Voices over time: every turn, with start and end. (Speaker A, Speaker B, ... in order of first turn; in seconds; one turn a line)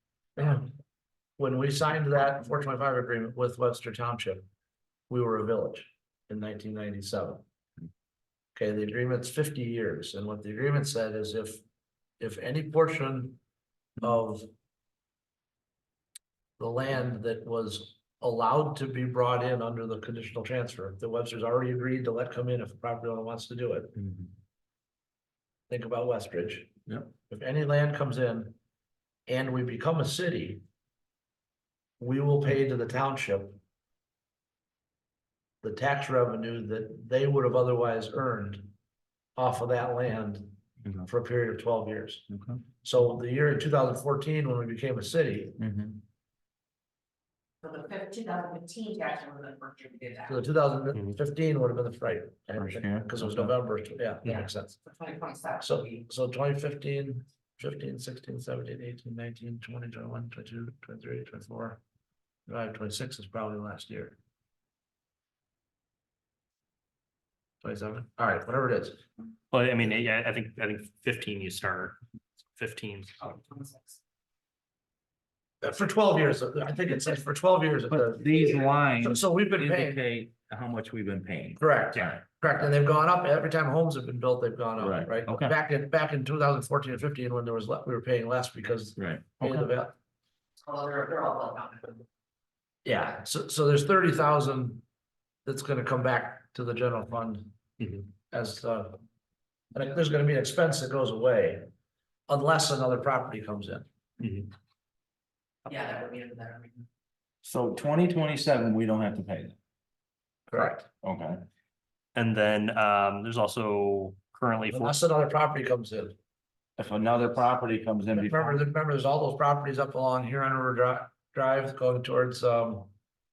Speaker A: 0.4-0.7
Speaker A: 1.4-4.5
Speaker A: 5.1-7.5
Speaker A: 8.6-11.6
Speaker A: 12.2-13.4
Speaker A: 14.0-14.5
Speaker A: 16.6-23.9
Speaker B: 24.0-24.3
Speaker A: 25.7-28.6
Speaker A: 29.3-30.6
Speaker A: 32.0-33.6
Speaker A: 35.6-38.7
Speaker A: 39.4-42.3
Speaker B: 42.3-42.6
Speaker A: 42.8-45.6
Speaker B: 45.6-46.0
Speaker C: 47.6-50.4
Speaker A: 50.3-54.8
Speaker B: 52.6-53.5
Speaker C: 54.3-56.0
Speaker A: 55.6-61.8
Speaker A: 62.5-64.2
Speaker A: 67.6-69.0
Speaker D: 69.5-72.0
Speaker D: 72.6-73.3
Speaker C: 73.3-74.0
Speaker A: 75.6-80.0
Speaker B: 77.9-82.2
Speaker A: 81.6-89.9
Speaker B: 84.8-85.5
Speaker B: 89.0-89.7
Speaker C: 90.6-92.0
Speaker A: 92.8-94.8
Speaker A: 95.5-97.5
Speaker D: 97.8-98.1
Speaker A: 98.3-99.0
Speaker A: 99.7-101.7
Speaker A: 102.3-103.9
Speaker D: 104.2-104.5
Speaker C: 105.7-106.9
Speaker B: 107.4-109.6
Speaker A: 110.5-110.9
Speaker B: 110.6-111.4
Speaker D: 112.2-115.0
Speaker A: 114.7-116.2
Speaker B: 116.8-118.6
Speaker A: 118.1-122.9